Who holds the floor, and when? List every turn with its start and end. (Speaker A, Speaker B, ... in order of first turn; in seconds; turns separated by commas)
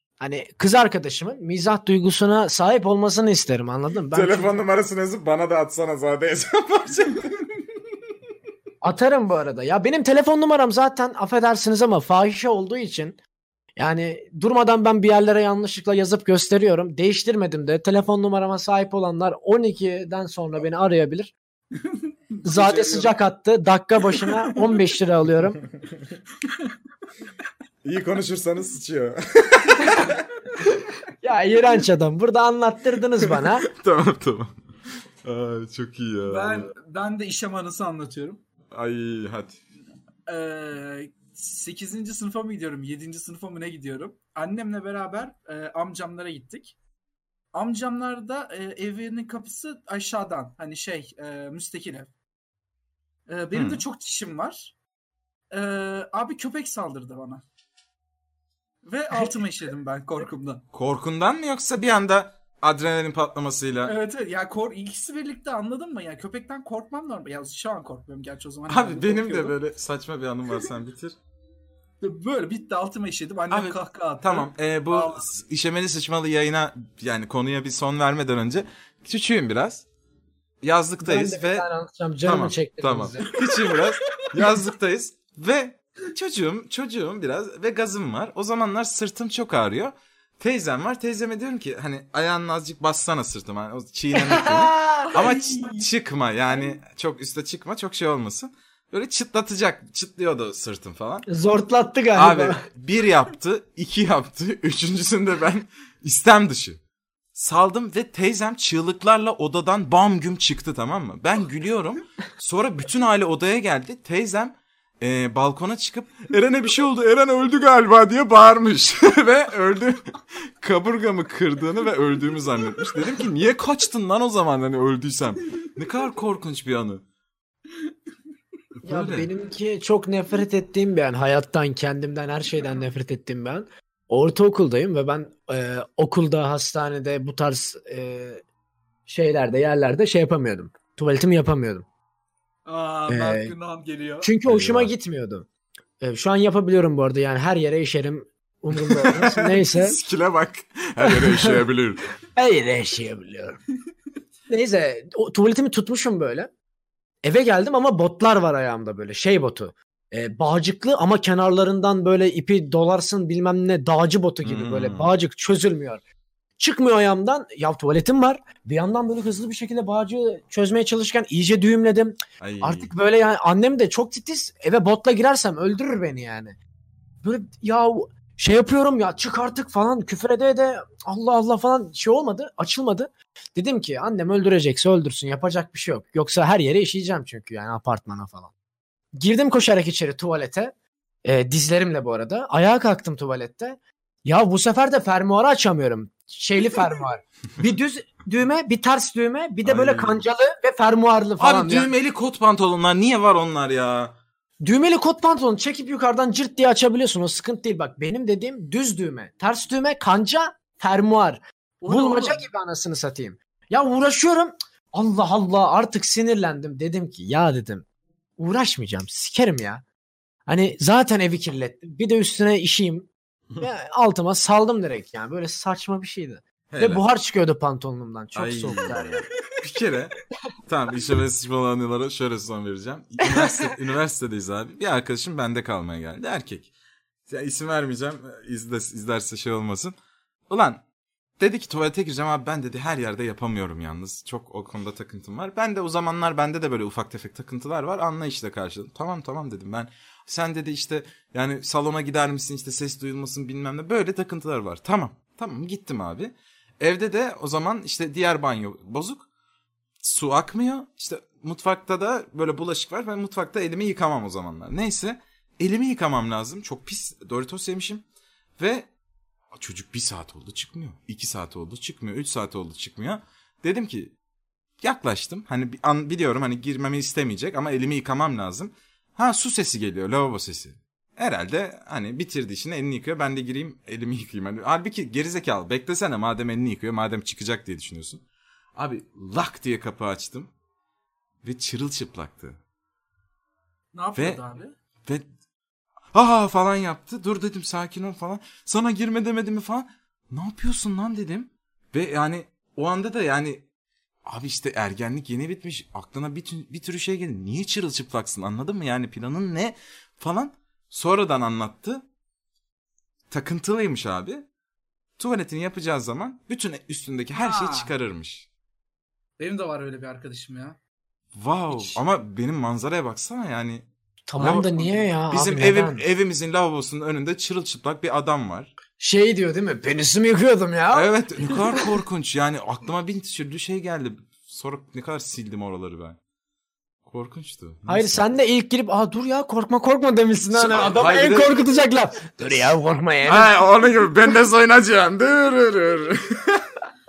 Speaker A: 0.2-4.6, Speaker B: 4.1-7.4, Speaker A: 8.8-13.2, Speaker A: 13.8-21.3, Speaker C: 21.9-23.2, Speaker A: 22.4-25.6, Speaker C: 24.2-24.8, Speaker B: 27.8-30.2, Speaker A: 31.2-33.7, Speaker B: 33.3-34.5, Speaker B: 35.2-36.7, Speaker C: 36.3-38.4, Speaker B: 38.7-39.6, Speaker C: 40.3-46.8, Speaker C: 47.5-52.1, Speaker C: 53.3-54.8, Speaker B: 53.5-53.8, Speaker C: 55.5-57.4, Speaker C: 58.8-60.6, Speaker B: 60.7-63.9, Speaker C: 63.9-69.6, Speaker B: 68.7-71.2, Speaker C: 72.0-75.3, Speaker B: 73.5-79.9, Speaker B: 80.6-81.7, Speaker A: 81.0-83.2, Speaker B: 82.2-101.3, Speaker C: 83.5-83.8, Speaker A: 94.2-95.2, Speaker C: 95.1-95.8, Speaker A: 101.3-102.6, Speaker B: 102.2-106.8, Speaker B: 107.3-127.0, Speaker B: 128.8-129.3, Speaker A: 128.8-138.4, Speaker A: 139.1-141.9, Speaker C: 142.7-144.3, Speaker A: 143.1-143.5, Speaker A: 144.2-145.5, Speaker B: 144.4-144.9, Speaker A: 146.0-150.0, Speaker B: 148.7-152.0, Speaker A: 151.0-151.6, Speaker A: 152.3-153.6, Speaker A: 154.5-156.5, Speaker A: 157.2-166.0, Speaker B: 164.4-165.1, Speaker A: 166.6-176.6, Speaker B: 172.4-172.9, Speaker A: 177.2-188.5, Speaker A: 189.2-190.7, Speaker A: 191.2-201.9, Speaker B: 199.7-200.2, Speaker B: 201.4-204.2, Speaker A: 204.6-217.8, Speaker C: 211.8-212.4, Speaker A: 218.4-219.8, Speaker A: 220.5-223.1, Speaker A: 223.6-229.2, Speaker B: 226.7-227.1, Speaker B: 228.3-230.2, Speaker B: 230.7-236.7, Speaker A: 233.3-233.7, Speaker B: 237.3-239.9, Speaker B: 240.5-240.8, Speaker B: 241.4-259.3, Speaker B: 260.0-268.0, Speaker B: 268.6-268.9, Speaker B: 269.5-274.1, Speaker B: 274.8-288.2, Speaker B: 288.8-290.5, Speaker B: 291.4-292.6, Speaker C: 293.9-294.7, Speaker B: 294.1-294.4, Speaker B: 296.1-303.6, Speaker B: 304.2-312.0, Speaker B: 313.3-314.4, Speaker B: 315.2-318.5, Speaker C: 317.4-317.9, Speaker C: 319.4-320.8, Speaker B: 321.4-323.9, Speaker A: 324.3-326.0, Speaker C: 324.4-325.0, Speaker B: 324.4-324.7, Speaker B: 325.3-328.7, Speaker A: 329.0-331.1, Speaker B: 330.9-336.2, Speaker B: 337.1-338.3, Speaker A: 337.9-343.6, Speaker B: 340.5-341.6, Speaker B: 343.2-346.7